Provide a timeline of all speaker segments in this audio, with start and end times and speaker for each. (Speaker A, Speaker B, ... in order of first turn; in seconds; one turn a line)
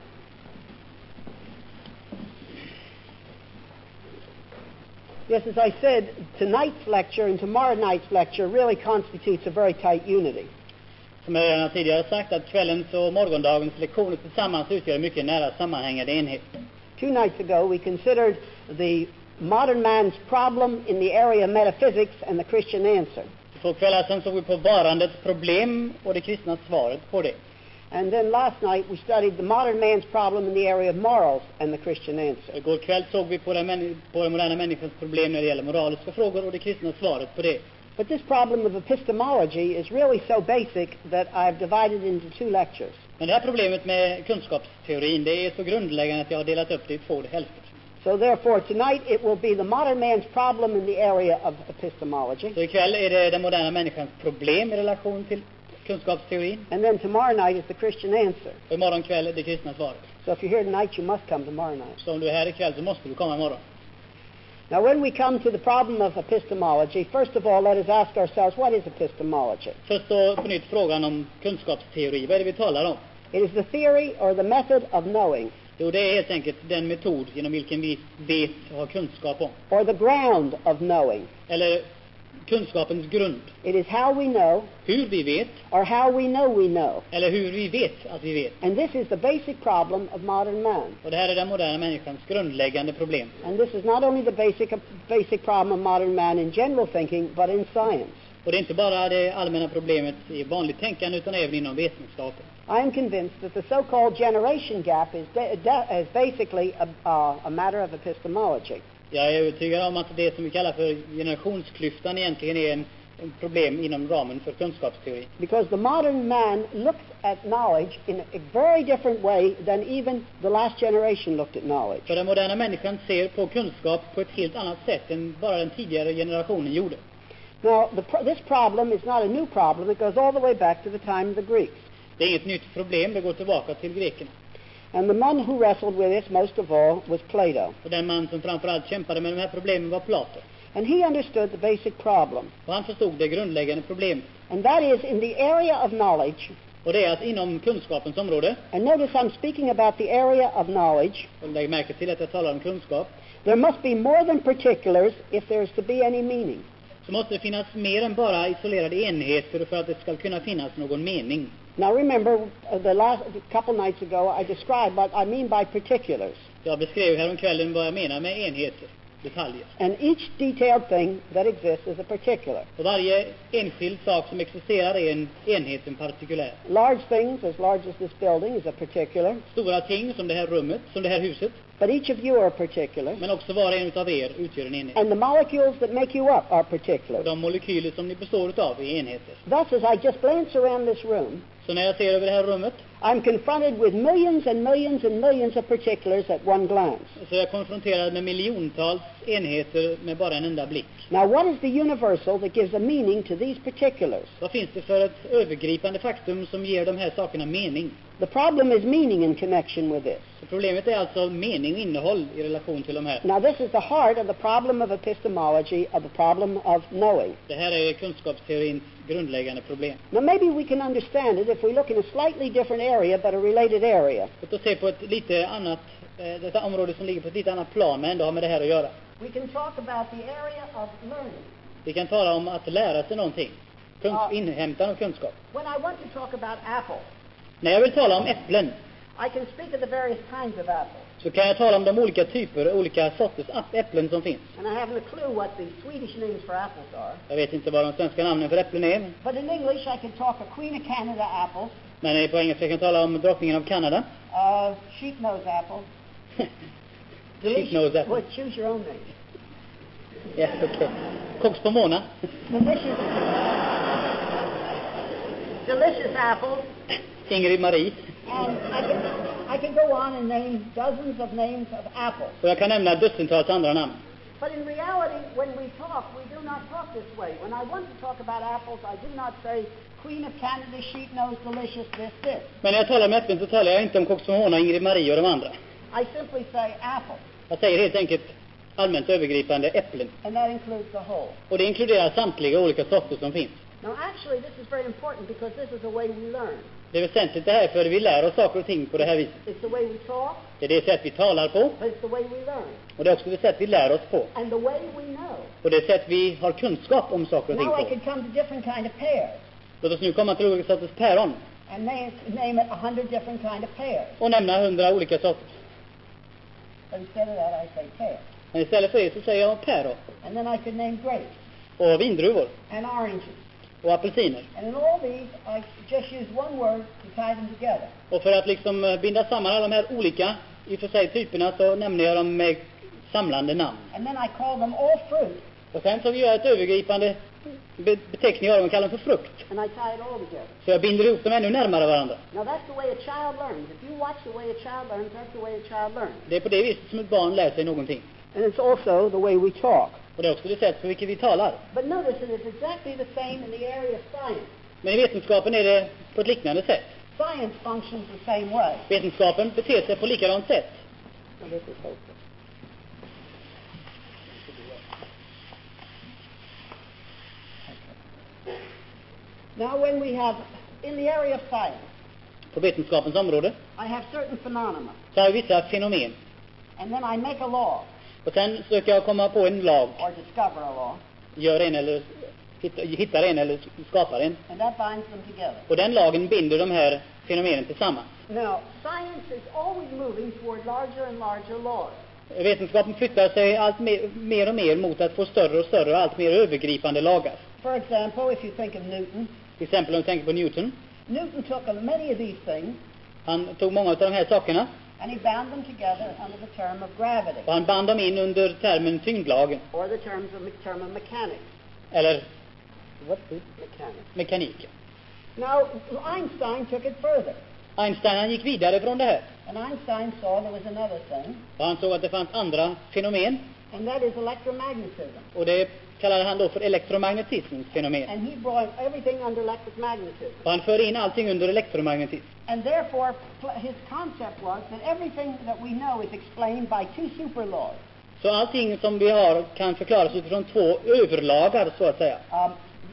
Speaker A: 5.3-10.5
Speaker B: 11.2-16.5
Speaker A: 17.0-23.3
Speaker B: 23.6-27.4
Speaker A: 27.9-32.5
Speaker B: 32.5-37.6
Speaker A: 38.0-43.0
Speaker B: 43.2-47.7
Speaker A: 48.0-52.6
Speaker B: 52.5-56.7
Speaker A: 56.7-58.6
Speaker B: 58.7-60.1
Speaker A: 60.2-62.0
Speaker B: 62.0-63.6
Speaker A: 64.7-69.8
Speaker B: 69.9-73.0
Speaker A: 73.3-75.5
Speaker B: 75.8-79.6
Speaker A: 79.7-81.3
Speaker B: 81.5-81.9
Speaker B: 82.5-83.5
Speaker A: 83.6-84.7
Speaker B: 84.9-85.6
Speaker A: 85.7-87.1
Speaker B: 87.1-88.6
Speaker A: 88.6-91.0
Speaker B: 91.0-93.3
Speaker A: 93.4-98.2
Speaker B: 98.5-102.5
Speaker A: 102.7-108.8
Speaker B: 109.1-115.3
Speaker A: 115.4-122.1
Speaker B: 122.1-127.0
Speaker A: 127.6-131.8
Speaker B: 132.2-134.3
Speaker A: 134.9-137.8
Speaker B: 137.8-140.4
Speaker A: 140.7-142.5
Speaker B: 142.7-144.3
Speaker A: 144.5-146.5
Speaker B: 146.8-148.6
Speaker A: 148.7-151.3
Speaker B: 151.4-153.1
Speaker A: 153.4-156.7
Speaker B: 157.0-161.6
Speaker A: 161.8-166.4
Speaker B: 166.6-169.7
Speaker A: 169.8-172.7
Speaker B: 172.8-176.6
Speaker A: 176.7-179.4
Speaker B: 179.5-181.6
Speaker A: 181.8-183.2
Speaker B: 183.2-185.0
Speaker A: 184.9-187.3
Speaker B: 187.2-189.4
Speaker A: 189.5-191.4
Speaker B: 191.6-192.8
Speaker A: 193.0-197.2
Speaker B: 197.2-200.9
Speaker A: 201.1-204.3
Speaker B: 204.4-208.0
Speaker A: 208.2-210.3
Speaker B: 210.4-213.2
Speaker A: 213.2-217.4
Speaker B: 217.5-220.0
Speaker A: 220.1-224.3
Speaker B: 224.4-229.0
Speaker A: 229.2-231.5
Speaker B: 231.8-235.4
Speaker A: 235.5-237.1
Speaker B: 237.6-238.8
Speaker A: 239.2-241.1
Speaker B: 241.2-244.5
Speaker A: 244.6-247.2
Speaker B: 247.3-249.2
Speaker A: 249.2-251.8
Speaker B: 252.0-254.1
Speaker A: 254.3-255.9
Speaker B: 257.4-258.2
Speaker A: 257.4-259.1
Speaker B: 260.4-262.1
Speaker A: 262.5-263.5
Speaker A: 265.6-266.7
Speaker B: 267.3-268.0
Speaker A: 268.3-272.4
Speaker B: 272.4-274.0
Speaker A: 274.4-282.5
Speaker B: 282.6-285.5
Speaker A: 285.9-287.2
Speaker B: 287.5-290.1
Speaker A: 290.2-291.4
Speaker B: 291.5-293.6
Speaker A: 293.8-296.7
Speaker B: 296.9-299.4
Speaker A: 299.4-300.5
Speaker B: 300.6-301.8
Speaker A: 301.8-302.8
Speaker B: 303.0-304.3
Speaker A: 304.3-305.5
Speaker B: 305.6-307.9
Speaker A: 307.5-309.4
Speaker B: 309.8-311.4
Speaker A: 311.7-314.2
Speaker B: 314.2-315.6
Speaker A: 316.9-318.2
Speaker B: 318.5-320.0
Speaker A: 320.2-321.3
Speaker B: 321.8-322.5
Speaker A: 322.7-323.4
Speaker B: 323.8-324.5
Speaker A: 324.5-327.9
Speaker B: 328.1-333.9
Speaker A: 333.9-335.4
Speaker B: 335.7-337.2
Speaker B: 337.8-339.5
Speaker A: 339.5-340.5
Speaker B: 340.6-342.2
Speaker A: 342.3-346.3
Speaker B: 346.3-348.1
Speaker A: 348.3-350.0
Speaker B: 350.2-351.6
Speaker A: 351.7-354.5
Speaker B: 354.8-356.9
Speaker A: 357.2-358.9
Speaker B: 358.9-360.8
Speaker A: 361.4-362.2
Speaker A: 369.6-371.9
Speaker B: 372.5-373.6
Speaker A: 373.8-375.0
Speaker B: 375.1-376.2
Speaker A: 376.8-377.9
Speaker B: 378.2-380.0
Speaker A: 380.0-381.0
Speaker B: 381.4-384.4
Speaker A: 384.5-385.7
Speaker B: 385.7-388.1
Speaker A: 388.3-392.0
Speaker B: 392.3-397.4
Speaker A: 397.6-399.3
Speaker B: 399.6-400.8
Speaker A: 401.1-402.8
Speaker B: 403.3-404.7
Speaker A: 405.0-407.5
Speaker B: 407.5-409.6
Speaker A: 409.7-411.4
Speaker B: 411.9-412.2
Speaker A: 413.0-414.1
Speaker B: 414.1-414.7
Speaker A: 415.4-417.4
Speaker B: 417.8-419.3
Speaker A: 419.5-421.4
Speaker B: 421.6-423.5
Speaker A: 423.7-425.3
Speaker B: 425.4-428.1
Speaker A: 428.1-430.4
Speaker B: 430.4-432.3
Speaker A: 432.5-437.8
Speaker B: 438.2-442.2
Speaker A: 442.3-442.6